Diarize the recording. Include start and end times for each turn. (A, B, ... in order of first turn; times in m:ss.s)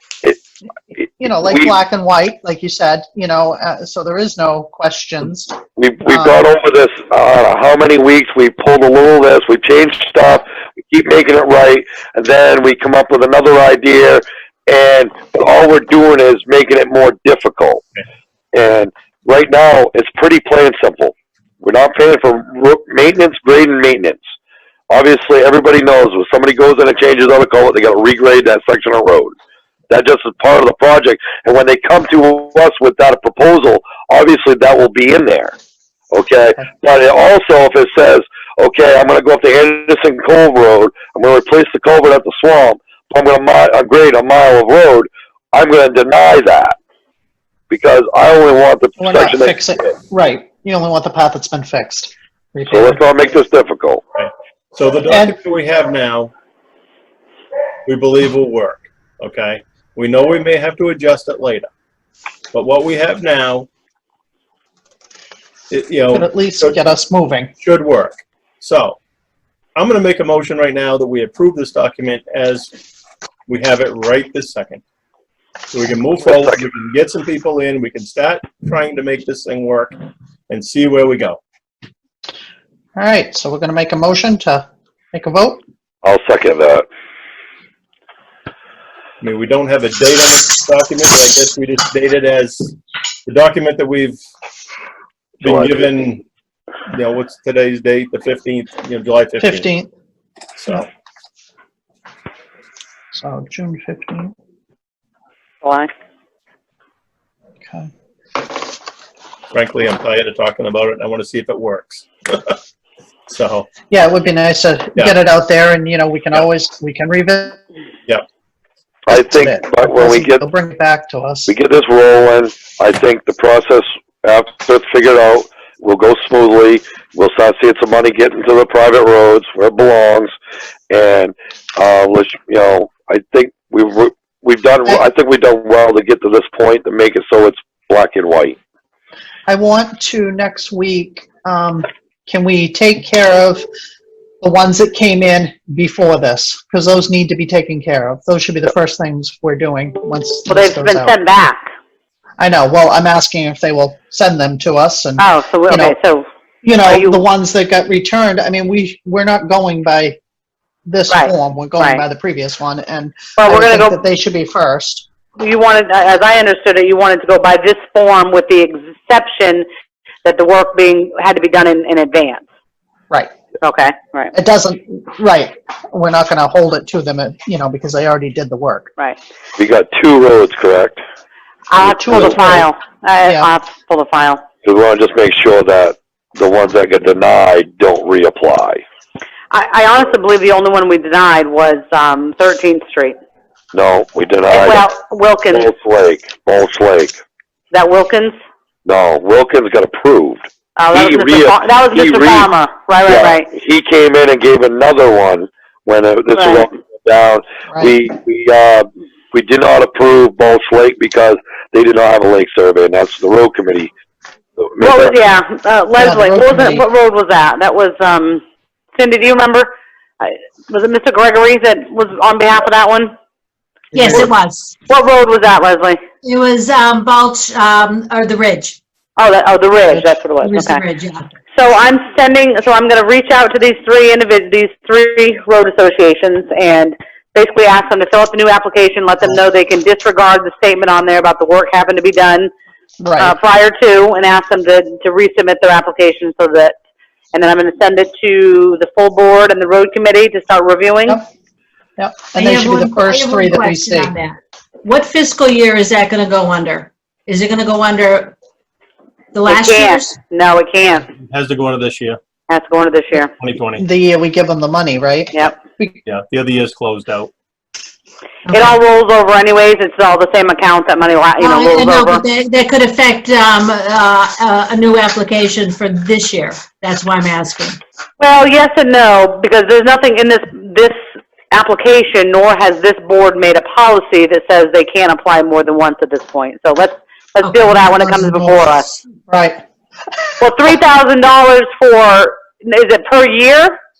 0:01.2-0:06.5 A
0:05.8-0:17.8 B
0:18.5-0:24.2 B
0:24.9-0:29.3 B
0:29.9-0:35.5 B
0:36.1-0:46.7 B
0:47.7-0:49.8 B
0:49.0-0:53.0 A
0:52.7-0:54.0 B
0:54.2-0:56.3 C
0:55.1-0:55.4 A
0:57.8-1:01.7 C
1:02.5-1:03.7 C
1:05.7-1:06.8 C
1:06.1-1:07.5 A
1:07.6-1:09.0 C
1:09.8-1:12.7 C
1:13.5-1:14.8 C
1:15.7-1:19.9 C
1:16.2-1:16.6 B
1:20.5-1:21.4 C
1:23.0-1:25.6 A
1:26.0-1:26.9 B
1:29.2-1:32.8 C
1:33.2-1:34.2 C
1:35.4-1:36.2 C
1:35.4-1:35.8 B
1:36.9-1:39.7 C
1:39.4-1:39.9 A
1:40.6-1:40.9 C
1:43.1-1:44.3 A
1:45.6-1:45.9 D
1:49.5-1:52.6 C
1:53.3-1:53.7 C
1:53.9-1:57.6 A
1:59.1-2:00.4 B
1:59.1-2:01.5 A
2:01.5-2:10.3 B
2:10.9-2:18.6 B
2:19.5-2:23.7 A
2:24.4-2:31.2 A
2:30.5-2:31.7 D
2:32.4-2:35.9 A
2:35.2-2:36.2 D
2:36.6-2:40.2 A
2:36.8-2:37.2 D
2:40.8-2:45.1 A
2:41.1-2:42.0 D
2:43.4-2:44.0 D
2:45.4-2:49.7 D
2:50.2-2:52.4 D
2:53.6-2:54.3 D
2:54.3-2:58.9 A
2:59.6-3:01.0 B
3:01.7-3:04.4 D
3:01.8-3:02.7 A
3:02.0-3:02.4 B
3:04.6-3:08.8 B
3:09.5-3:13.2 D
3:13.7-3:14.8 B
3:14.5-3:15.7 D
3:15.5-3:17.2 B
3:17.7-3:18.4 D
3:18.8-3:22.5 B
3:20.8-3:23.5 D
3:23.1-3:33.9 B
3:26.4-3:26.7 D
3:34.6-3:35.2 B
3:34.8-3:38.4 D
3:36.0-3:36.8 A
3:38.9-3:43.1 D
3:43.9-3:44.8 E
3:44.0-3:44.2 A
3:44.9-3:46.0 D
3:46.2-3:48.8 E
3:49.2-3:50.8 D
3:50.4-3:51.3 E
3:51.5-4:02.5 D
4:03.0-4:03.4 A
4:03.2-4:06.8 D
4:07.3-4:11.2 D
4:12.0-4:14.1 A
4:12.3-4:18.3 E
4:19.3-4:20.2 E
4:19.5-4:21.1 D
4:21.1-4:22.2 C
4:22.5-4:23.3 D
4:23.4-4:23.8 C
4:23.8-4:26.0 A
4:26.1-4:27.3 C
4:28.4-4:28.8 E
4:28.5-4:32.2 D
4:31.4-4:37.8 E
4:38.2-4:41.0 D
4:41.5-4:49.0 D
4:47.4-4:48.8 E
4:49.3-4:49.6 A
4:50.4-4:53.8 D